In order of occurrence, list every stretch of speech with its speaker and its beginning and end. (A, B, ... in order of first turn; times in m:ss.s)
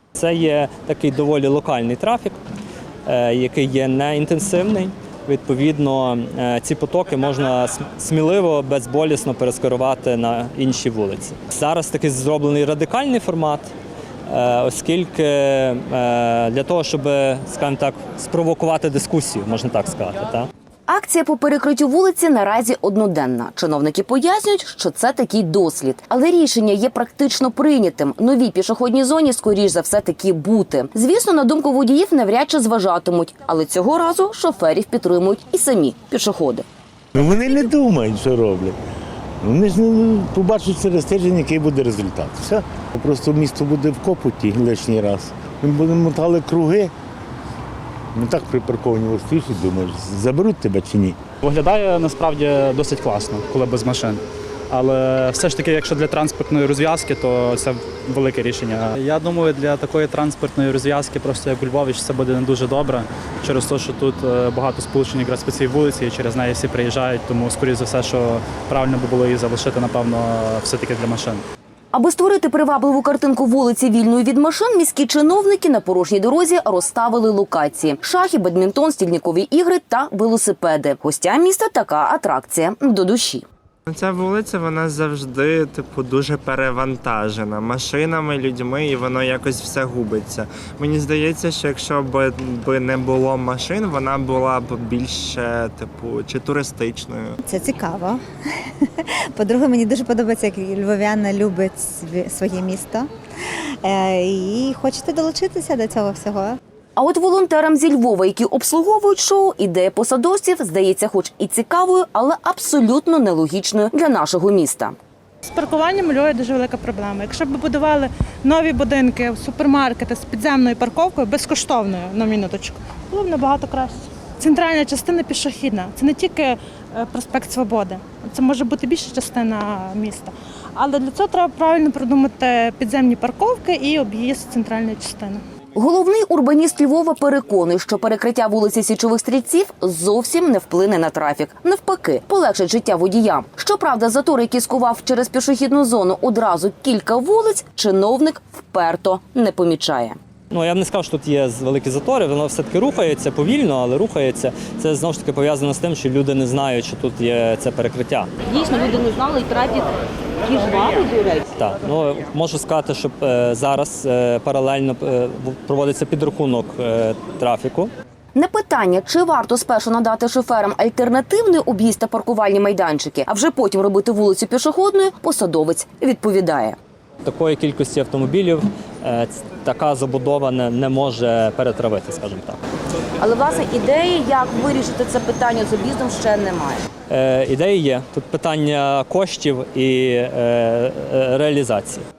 0:00.1-0:02.4 A
0:03.0-0:13.7 A
0:14.3-0:20.5 A
0:20.9-0:36.7 B
0:37.1-0:38.8 C
0:39.4-0:46.9 C
0:48.1-0:51.2 C
0:51.4-1:11.4 D
1:11.9-1:23.4 B
1:23.9-1:37.4 E
1:37.4-1:38.2 F
1:39.3-1:43.1 F
1:43.8-1:46.6 F
1:47.0-1:55.0 B
1:55.4-2:15.4 G
2:15.7-2:30.2 B
2:30.5-2:38.3 A
2:38.4-2:41.5 B
2:41.6-2:47.9 A
2:48.3-2:56.8 B
2:57.2-3:02.6 A
3:03.2-3:06.8 B
3:07.1-3:12.0 A